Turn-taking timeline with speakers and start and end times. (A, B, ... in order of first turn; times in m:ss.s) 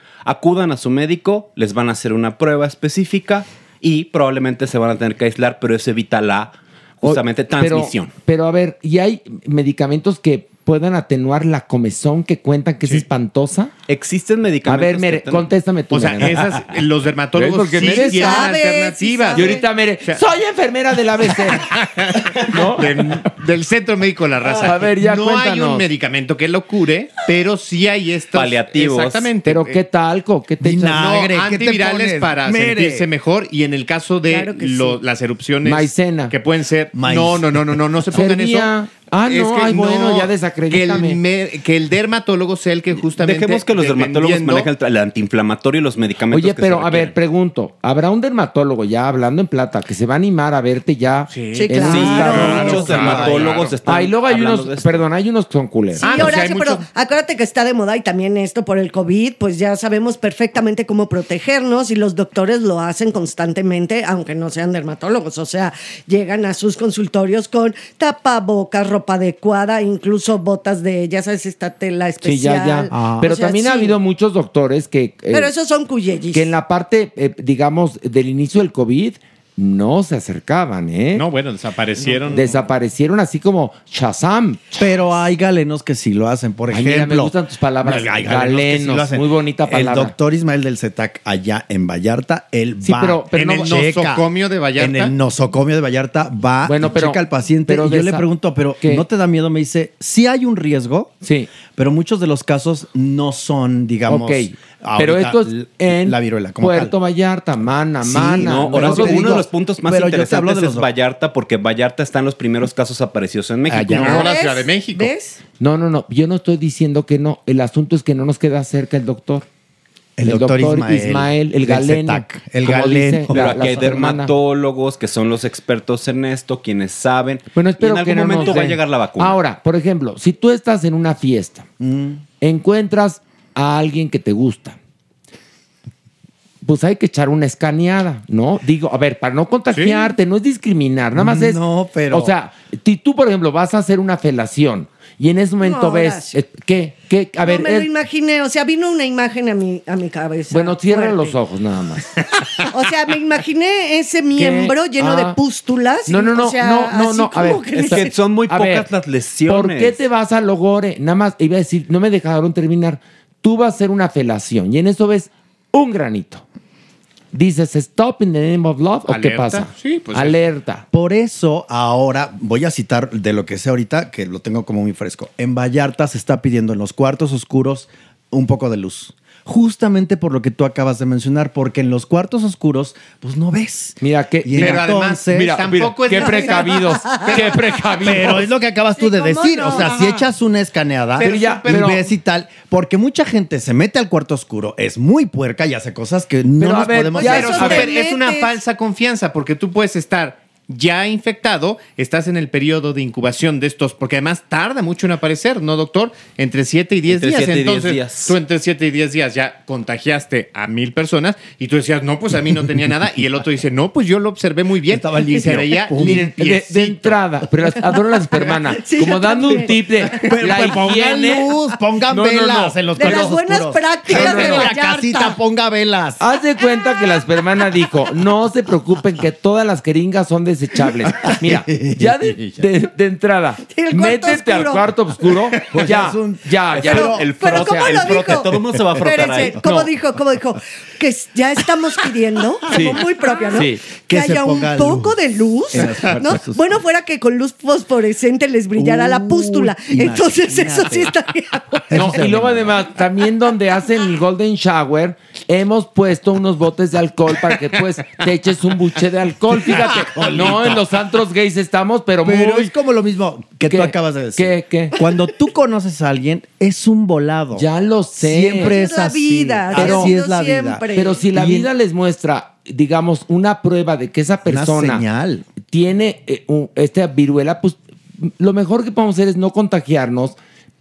0:00.2-0:08.1 A
0:07.0-0:13.7 B
0:13.9-0:15.5 A
0:14.6-0:16.6 B
0:15.9-0:20.2 C
0:17.4-0:18.5 B
0:18.1-0:19.6 D
0:19.3-0:21.8 B
0:21.3-0:29.8 C
0:22.4-0:23.2 B
0:24.6-0:25.9 B
0:28.3-0:29.3 A
0:29.4-0:31.0 B
0:30.6-0:33.1 E
0:30.9-0:38.7 C
0:34.3-0:35.0 D
0:35.6-0:36.3 B
0:36.9-0:37.6 E
0:38.1-0:41.2 B
0:39.2-0:44.7 C
0:43.1-0:47.2 A
0:46.3-0:53.2 B
0:51.3-0:53.7 C
0:51.5-0:53.1 D
0:51.9-0:55.1 A
0:52.5-0:53.7 E
0:53.8-0:56.4 B
0:56.0-1:14.0 D
0:56.0-0:56.8 C
1:12.2-1:15.5 B
1:12.9-1:13.3 E
1:15.3-1:16.5 D
1:16.3-1:21.3 B
1:21.1-1:22.6 C
1:22.3-1:24.9 B
1:24.8-1:46.9 E
1:26.7-1:30.2 B
1:32.8-1:33.8 B
1:33.3-1:35.2 C
1:36.6-1:38.3 B
1:41.2-1:41.5 B
1:44.1-1:49.5 B
1:48.0-1:50.9 E
1:48.4-1:54.1 A
1:53.7-1:54.3 B
1:53.9-1:55.1 C
1:54.0-1:55.4 D
1:55.6-1:59.5 B
2:00.2-2:03.9 E
2:00.2-2:04.3 B
2:03.3-2:09.4 A
2:07.5-2:11.7 B
2:11.8-2:12.2 E
2:12.4-2:14.8 B
2:16.6-2:27.9 B
2:19.7-2:20.1 C
2:21.2-2:22.3 E
2:25.6-2:26.4 D
2:27.4-2:31.4 D
2:30.5-2:32.2 B
2:32.7-2:38.2 D
2:34.4-2:35.4 B
2:36.1-2:38.9 B
2:37.7-2:40.0 A
2:39.5-2:46.4 B
2:47.3-2:50.8 B
2:49.1-2:50.4 C
2:50.9-3:06.3 E
3:04.0-3:08.5 B
3:04.6-3:07.8 C
3:08.0-3:17.9 E
3:09.0-3:10.0 D
3:11.2-3:12.1 C
3:11.2-3:12.0 B
3:16.6-3:17.9 B
3:17.2-3:18.5 D
3:17.2-3:37.2 C
3:27.1-3:28.4 A
3:34.9-3:36.3 E
3:36.0-3:43.4 B
3:38.3-3:40.3 D
3:40.0-3:46.2 E
3:43.0-3:45.4 D
3:44.1-3:44.7 B
3:46.2-3:58.0 B
3:51.0-3:52.6 E
3:53.7-3:54.8 D
3:55.2-3:57.2 E
3:56.7-3:59.9 A
3:56.9-4:11.9 D
3:58.3-3:59.9 E
4:02.7-4:03.8 B
4:04.1-4:05.2 E
4:05.7-4:06.8 E
4:08.8-4:11.2 E
4:11.9-4:12.9 E
4:11.9-4:22.7 B
4:19.6-4:20.8 E
4:22.2-4:31.7 E
4:23.6-4:25.0 B
4:27.5-4:28.8 B
4:28.6-4:31.2 D
4:29.7-4:30.1 B
4:30.9-4:35.0 B
4:34.4-4:35.5 E
4:35.7-4:40.4 B